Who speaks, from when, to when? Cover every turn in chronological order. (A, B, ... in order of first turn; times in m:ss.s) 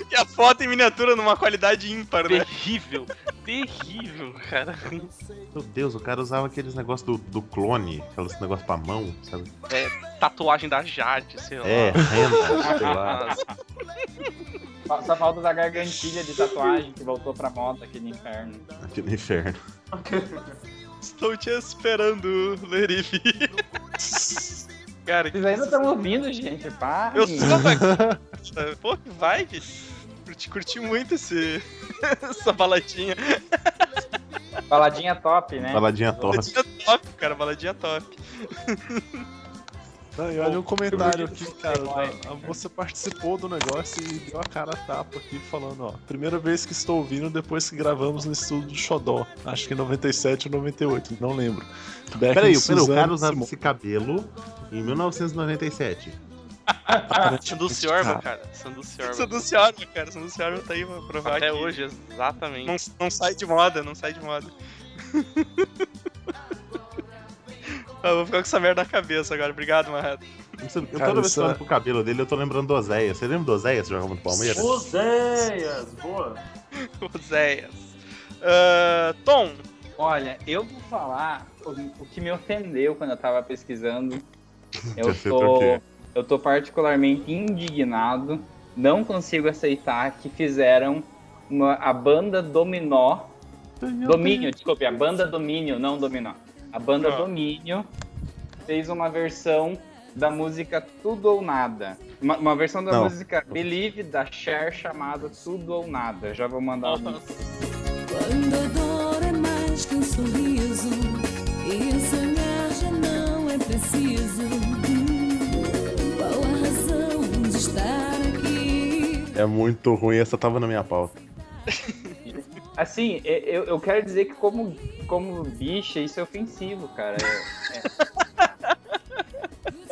0:00.1-0:02.5 A
0:02.3-0:05.1 B
0:05.5-0:09.5 C
0:09.7-0:13.4 B
0:11.6-0:13.3 C
0:12.6-0:13.4 D
0:14.9-0:18.6 D
0:18.8-0:19.6 C
0:19.9-0:20.5 E
0:21.0-0:23.6 A
0:24.0-0:24.6 F
0:25.0-0:26.0 A
0:25.3-0:27.6 D
0:27.1-0:27.9 A
0:27.5-0:28.2 F
0:28.4-0:29.7 A
0:30.2-0:33.9 A
0:34.7-0:36.4 D
0:35.6-0:36.6 C
0:36.3-0:39.2 A
0:40.1-0:53.5 F
0:40.9-0:41.2 C
0:40.9-0:42.5 D
0:52.3-0:56.2 C
0:57.1-0:58.2 F
0:57.4-0:59.4 B
0:59.0-1:01.8 A
1:01.2-1:02.8 B
1:02.6-1:05.7 A
1:08.0-1:10.2 A
1:10.6-1:14.8 C
1:10.9-1:11.6 F
1:14.3-1:16.4 E
1:16.8-1:19.6 A
1:20.0-1:24.2 D
1:25.0-1:25.8 C
1:25.0-1:33.3 D
1:33.8-1:34.5 C
1:34.0-1:37.9 D
1:37.0-1:37.3 A
1:38.7-1:47.2 D
1:42.9-1:43.6 C
1:46.8-1:47.4 A
1:48.1-1:59.4 G
1:59.3-2:01.2 C
2:01.7-2:02.0 A
2:02.2-2:07.8 D
2:08.0-2:08.7 A